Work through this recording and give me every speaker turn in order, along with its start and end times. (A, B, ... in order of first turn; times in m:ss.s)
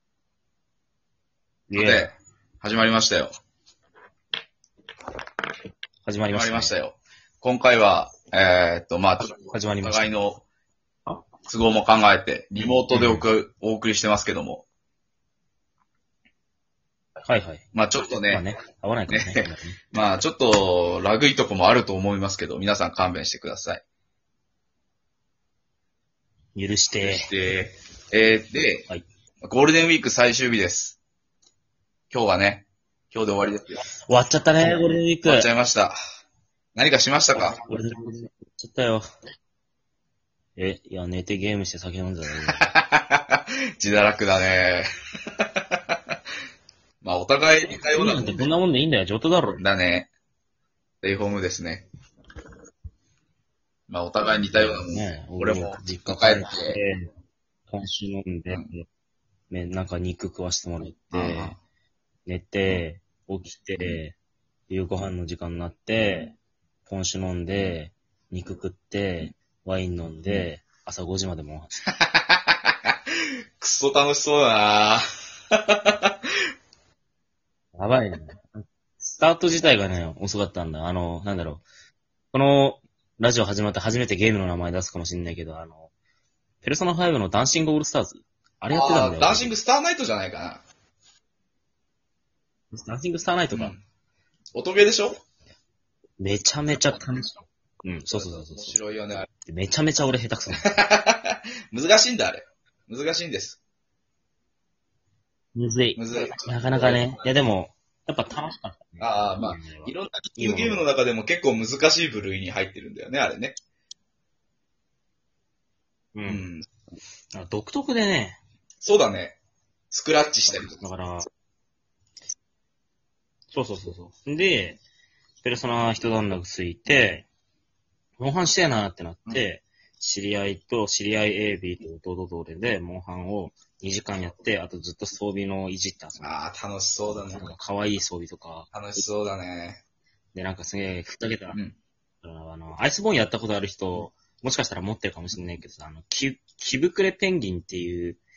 0:01.7-0:02.1 A
0:01.8-0:03.3 B
0:06.0-0:06.8 A
0:06.3-0:10.4 B
0:09.3-0:10.2 A
0:11.4-0:14.6 B
0:12.9-0:13.3 A
0:17.2-0:19.8 A
0:17.7-0:18.4 B
0:19.1-0:23.8 B
0:26.6-0:27.3 A
0:27.0-0:28.9 B
0:29.4-0:31.0 B
0:32.1-0:33.8 B
0:34.0-0:35.5 A
0:35.2-0:36.0 B
0:36.8-0:37.6 B
0:37.3-0:39.0 A
0:40.6-0:42.7 A
0:42.5-0:44.9 B
0:47.0-0:48.5 B
0:47.7-0:49.6 A
0:49.6-0:50.1 B
0:51.0-0:51.9 B
0:53.9-0:56.8 B
0:54.5-0:57.1 A
0:57.7-0:58.9 A
0:59.5-1:01.6 A
1:01.1-1:01.6 B
1:02.3-1:04.2 A
1:04.7-1:06.4 A
1:06.9-1:11.7 A
1:11.9-1:12.9 B
1:13.6-1:16.1 B
1:17.8-1:21.6 A
1:22.3-1:25.9 A
1:26.6-1:29.6 A
1:28.7-1:30.6 B
1:32.7-1:33.8 A
1:33.5-1:33.8 B
1:34.6-1:35.2 B
1:36.2-1:38.8 A
1:38.1-1:39.3 B
1:39.4-1:40.7 A
1:40.6-1:43.6 B
1:45.6-1:50.9 A
1:46.0-1:47.2 B
1:49.0-1:53.6 B
1:56.2-1:56.4 A
1:56.3-1:56.6 B
1:57.3-1:58.4 A
1:58.8-1:59.4 B
1:59.9-2:00.8 B
2:00.7-2:01.3 A
2:03.5-2:04.8 A
2:05.4-2:07.3 A
2:08.2-2:16.3 A
2:16.2-2:17.5 B
2:17.0-2:19.0 A
2:18.7-2:19.8 B
2:20.3-2:21.6 A
2:22.2-2:28.2 A